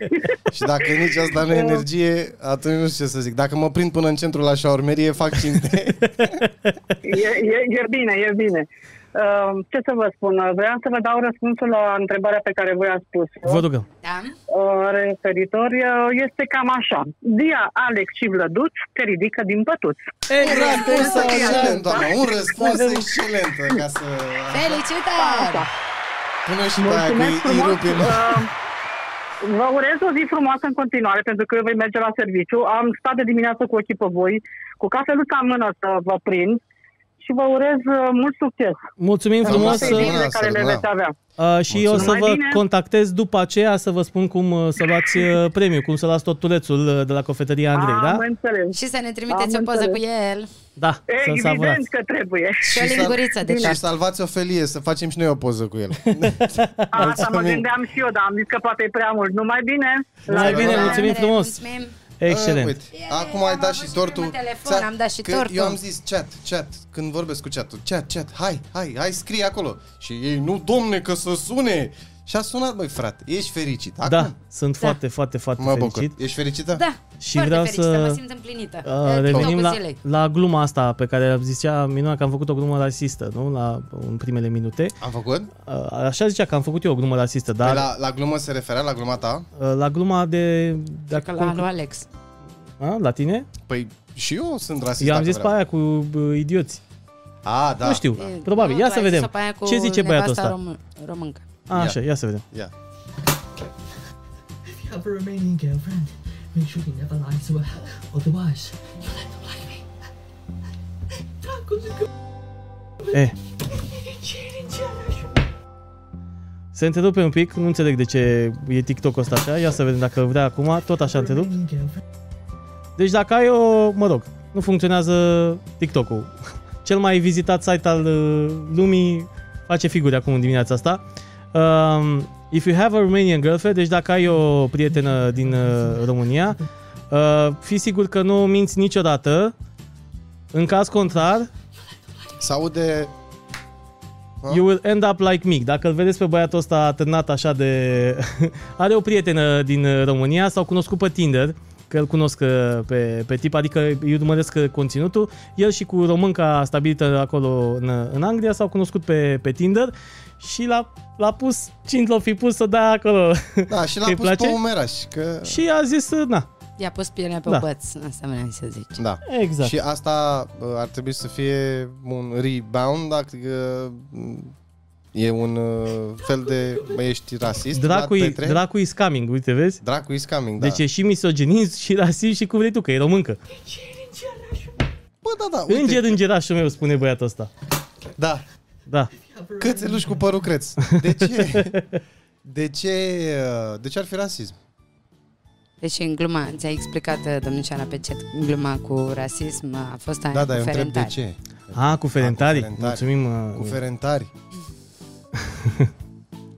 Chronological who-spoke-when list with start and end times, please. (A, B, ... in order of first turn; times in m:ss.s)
0:00.5-0:06.4 A
0:01.4-0:01.8 B
0:07.0-0:13.6 B
0:13.4-0:13.8 C
0:14.0-0:14.4 D
0:14.5-0:22.2 B
0:20.3-0:21.8 C
0:20.4-0:24.8 A
0:24.5-0:25.7 D
0:25.2-0:25.7 B
0:26.4-0:28.4 A
0:26.8-0:28.5 B
0:29.4-0:36.6 B
0:37.2-0:38.8 B
0:39.0-0:40.1 C
0:39.4-0:41.1 B
0:39.4-0:40.9 A
0:41.4-0:48.2 C
0:41.7-0:42.2 A
0:41.9-0:42.6 B
0:47.7-0:48.8 B
0:48.7-0:50.5 D
0:49.3-0:50.0 B
0:50.8-0:51.8 C
0:51.1-0:53.8 B
0:52.6-0:53.8 D
0:52.6-0:57.6 A
0:56.2-0:57.0 C
0:56.9-1:01.1 B
1:00.3-1:01.6 C
1:00.3-1:01.9 D
1:00.3-1:01.1 A
1:02.2-1:02.8 C
1:02.2-1:14.3 A
1:02.9-1:05.8 D
1:14.0-1:16.1 C
1:15.6-1:16.8 A
1:16.7-1:20.0 D
1:17.2-1:18.2 C
1:18.8-1:25.0 C
1:25.0-1:25.5 A
1:25.6-1:27.9 C
1:27.6-1:29.4 A
1:29.6-1:31.6 C
1:31.1-1:32.1 D
1:32.8-1:33.5 C
1:33.7-1:35.6 A
1:35.0-1:36.8 C
1:37.4-1:38.2 A
1:37.8-1:40.5 C
1:38.2-1:41.5 D
1:41.7-1:42.4 C
1:41.7-1:42.0 A
1:44.6-1:49.9 E
1:51.4-1:52.1 E
1:53.7-1:55.4 E
1:56.7-2:01.5 C
2:01.0-2:02.0 E
2:03.0-2:06.3 C
2:06.8-2:11.0 C
2:11.5-2:19.5 C
2:14.9-2:16.6 E
2:20.5-2:21.5 C
2:22.4-2:23.1 A
2:24.5-2:44.6 C
2:43.7-2:45.6 A
2:45.4-2:46.5 C
2:46.8-2:49.0 D
2:49.0-2:54.5 A
2:49.2-2:49.7 C
2:55.1-2:58.6 A
2:56.2-2:57.0 E
2:57.7-2:59.8 C
2:59.8-3:00.8 A
3:00.6-3:03.4 C
3:03.5-3:04.9 E
3:05.2-3:06.2 A
3:05.7-3:07.5 C
3:08.2-3:08.4 A
3:08.9-3:09.1 C
3:09.2-3:10.4 E
3:09.6-3:11.8 A
3:10.9-3:12.0 C
3:12.4-3:14.6 A
3:15.8-3:21.1 D
3:20.3-3:24.3 A
3:21.7-3:23.8 C
3:25.5-3:25.9 C